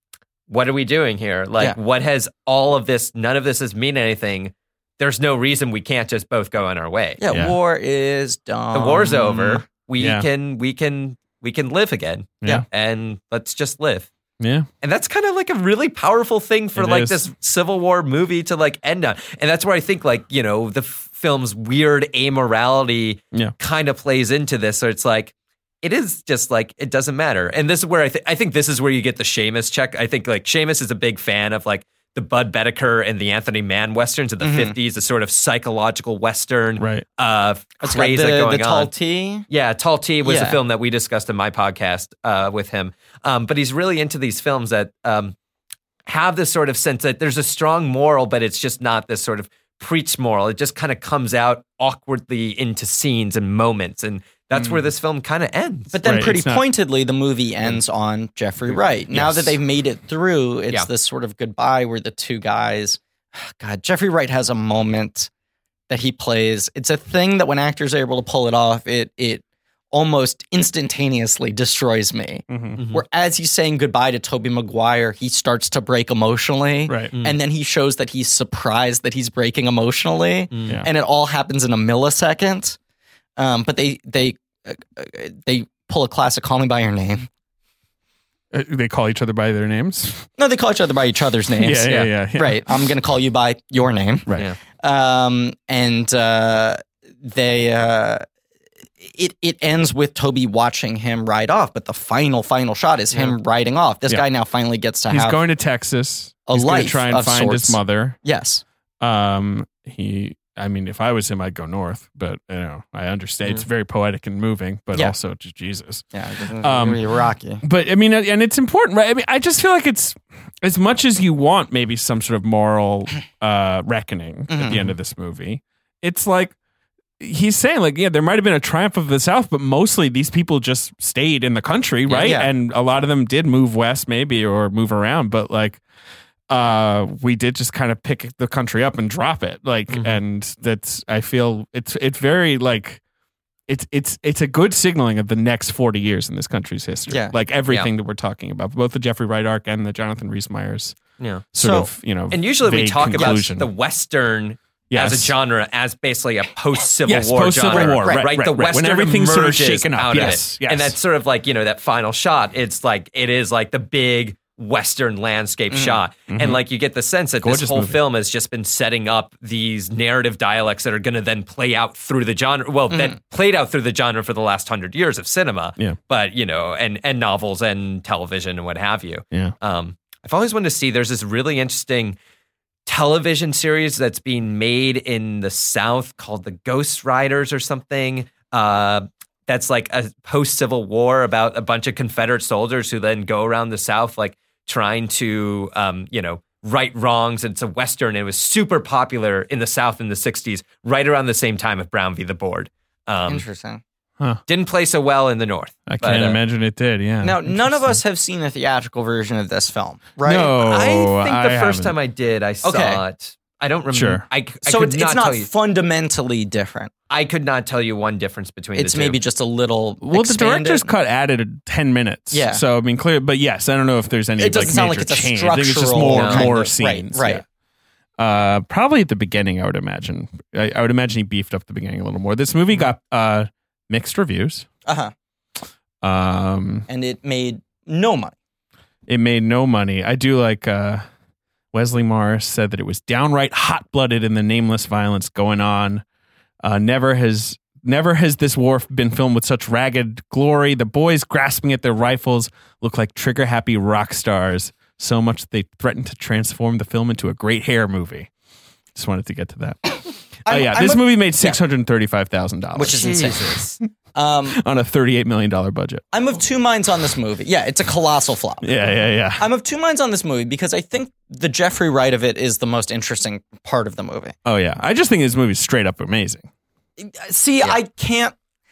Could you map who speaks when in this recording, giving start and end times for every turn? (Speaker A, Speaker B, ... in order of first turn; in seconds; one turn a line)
Speaker A: 0.5-7.2
Speaker B: 7.2-9.6
Speaker A: 8.7-14.1
Speaker C: 10.0-10.3
Speaker C: 14.4-14.7
Speaker A: 14.8-38.9
Speaker C: 16.8-17.2
Speaker B: 34.4-34.8
Speaker C: 36.8-37.0
Speaker B: 37.8-39.5
Speaker A: 39.5-45.4
Speaker B: 40.2-40.6
Speaker A: 46.1-56.0
Speaker C: 54.6-54.9
Speaker B: 55.9-65.3
Speaker C: 56.0-56.6
Speaker C: 59.1-59.5
Speaker B: 65.9-82.8
Speaker C: 72.5-72.8
Speaker A: 72.8-73.0
Speaker C: 76.9-77.1
Speaker A: 80.5-80.8
Speaker B: 83.4-87.3
Speaker C: 88.5-90.3
Speaker B: 90.4-94.3
Speaker C: 91.6-92.6
Speaker B: 94.8-98.2
Speaker B: 99.0-105.4
Speaker C: 105.1-108.2
Speaker B: 106.5-108.6
Speaker C: 109.0-116.1
Speaker B: 116.1-117.6
Speaker C: 116.6-117.0
Speaker C: 117.6-126.5
Speaker B: 124.5-124.9
Speaker C: 127.2-135.8
Speaker B: 132.1-132.5
Speaker C: 136.5-143.0
Speaker A: 139.9-140.2
Speaker C: 143.7-151.0
Speaker B: 147.1-147.3
Speaker A: 151.2-151.4
Speaker C: 151.5-153.7
Speaker B: 151.6-151.9
Speaker A: 152.3-182.2
Speaker C: 154.9-155.3
Speaker C: 157.1-161.0
Speaker B: 157.7-158.3
Speaker B: 165.7-166.0
Speaker C: 166.3-166.6
Speaker C: 167.4-168.0
Speaker B: 172.9-173.2
Speaker A: 182.9-203.4
Speaker B: 203.3-203.8
Speaker A: 204.5-206.4
Speaker C: 205.9-208.0
Speaker B: 207.2-210.5
Speaker C: 210.2-211.9
Speaker A: 210.6-215.5
Speaker B: 212.6-213.0
Speaker C: 213.9-214.2
Speaker B: 214.6-216.9
Speaker A: 217.1-219.2
Speaker B: 218.8-220.9
Speaker C: 220.0-227.4
Speaker B: 222.3-222.6
Speaker B: 224.4-227.4
Speaker A: 226.1-226.5
Speaker C: 228.2-234.7
Speaker B: 234.9-235.1
Speaker C: 236.0-236.9
Speaker B: 236.9-238.3
Speaker C: 239.1-241.1
Speaker C: 241.7-246.0
Speaker C: 246.6-258.3
Speaker C: 258.9-259.9
Speaker C: 260.4-263.6
Speaker B: 260.5-261.6
Speaker B: 262.8-264.6
Speaker A: 262.8-263.5
Speaker C: 264.5-266.1
Speaker B: 266.1-274.4
Speaker C: 268.6-269.5
Speaker C: 274.4-276.5
Speaker B: 277.0-278.4